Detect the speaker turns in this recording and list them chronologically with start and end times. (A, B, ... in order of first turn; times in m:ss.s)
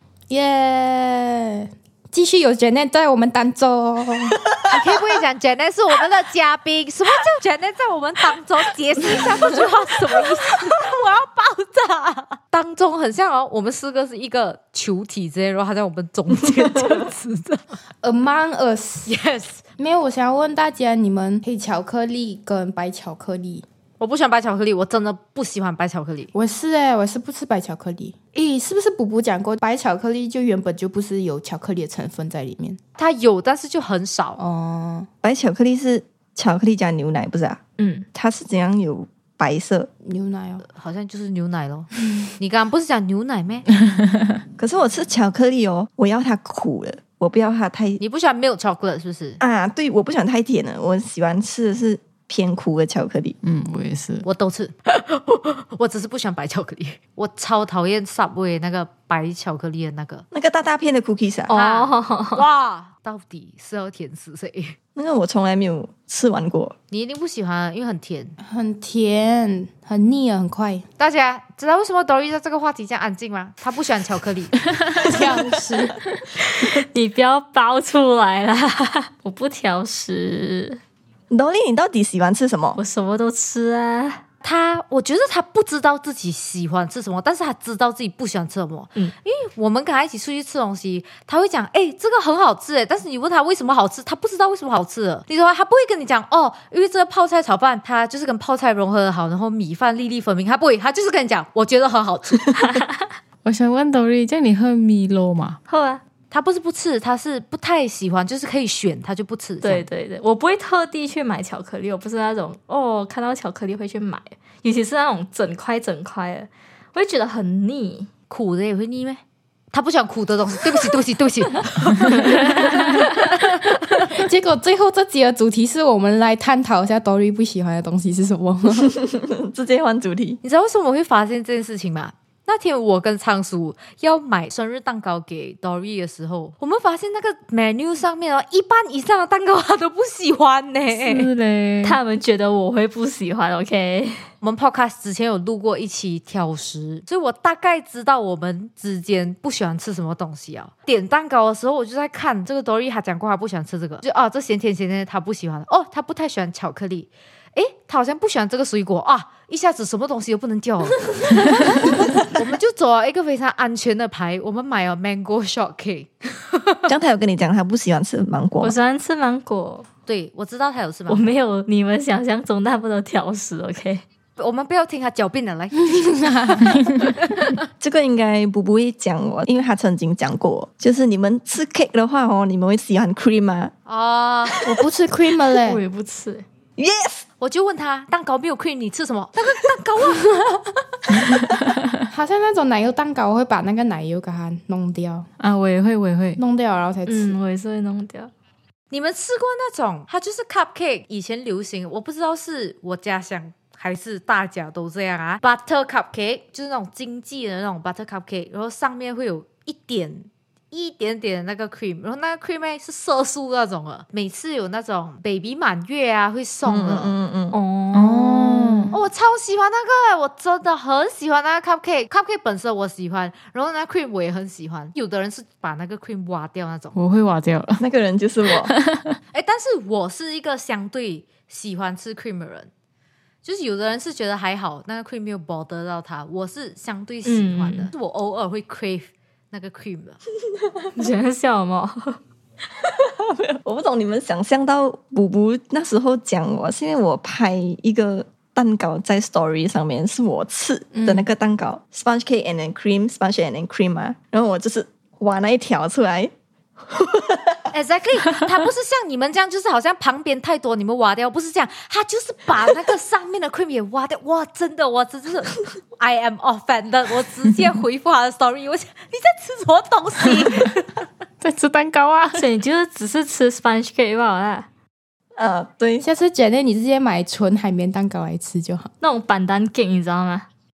0:00.3-0:04.4 A
0:04.7-0:17.6 B
0:18.0-0:19.1 A
0:19.1-0:19.6 B
0:19.8-0:23.6 A
0:24.0-0:26.3 B
0:26.3-0:32.8 A
0:33.0-0:34.4 B
0:34.4-0:35.1 A
0:35.2-0:37.6 C
0:37.8-0:38.0 D
0:38.1-0:39.9 C
0:40.0-0:40.6 A
0:40.6-0:43.6 B
0:43.8-0:44.1 E
0:44.6-0:48.0 C
0:48.0-0:49.4 B
0:49.4-0:53.3 C
0:53.4-0:54.2 E
0:54.2-1:00.2 B
1:00.3-1:01.5 C
1:01.5-1:02.4 D
1:01.5-1:04.8 B
1:05.0-1:06.7 C
1:06.9-1:08.3 B
1:08.4-1:10.8 A
1:11.0-1:14.6 B
1:14.8-1:15.1 E
1:15.0-1:16.0 A
1:16.4-1:20.8 D
1:21.3-1:22.8 C
1:22.8-1:24.2 D
1:24.4-1:42.6 B
1:42.7-1:43.0 D
1:43.4-1:45.6 E
1:45.7-1:46.0 D
1:46.3-1:49.8 B
1:49.6-1:58.1 D
1:58.3-1:59.2 B
1:59.7-2:02.7 B
2:02.1-2:03.3 D
2:04.0-2:08.9 A
2:08.8-2:10.4 C
2:10.4-2:21.3 B
2:20.9-2:22.0 E
2:21.8-2:24.2 D
2:24.4-2:46.9 B
2:46.9-2:48.8 C
2:48.6-2:49.8 D
2:50.0-2:51.3 B
2:51.1-2:54.0 D
2:54.4-2:56.2 B
2:55.8-2:57.3 A
2:57.8-3:03.7 C
3:03.8-3:04.6 B
3:04.6-3:05.8 A
3:05.6-3:06.4 D
3:06.8-3:07.2 C
3:07.4-3:10.3 B
3:10.1-3:10.8 A
3:11.3-3:12.0 E
3:12.1-3:15.3 A
3:15.4-3:16.4 E
3:16.4-3:17.4 A
3:17.0-3:18.3 D
3:18.9-3:37.1 B
3:36.6-3:37.6 C
3:37.5-3:38.9 D
3:37.9-3:39.0 E
3:38.9-3:47.0 B
3:46.9-3:47.8 E
3:47.8-3:48.7 C
3:48.6-3:49.2 E
3:49.3-3:52.7 B
3:53.4-4:00.2 B
3:57.2-3:57.9 D
4:00.9-4:02.2 D
4:02.8-4:16.3 C
4:10.9-4:11.2 A
4:16.9-4:17.6 C
4:17.7-4:31.1 B
4:31.4-4:32.4 E
4:32.3-4:34.7 D
4:35.4-4:36.0 C
4:36.0-4:38.9 A
4:39.0-4:40.4 D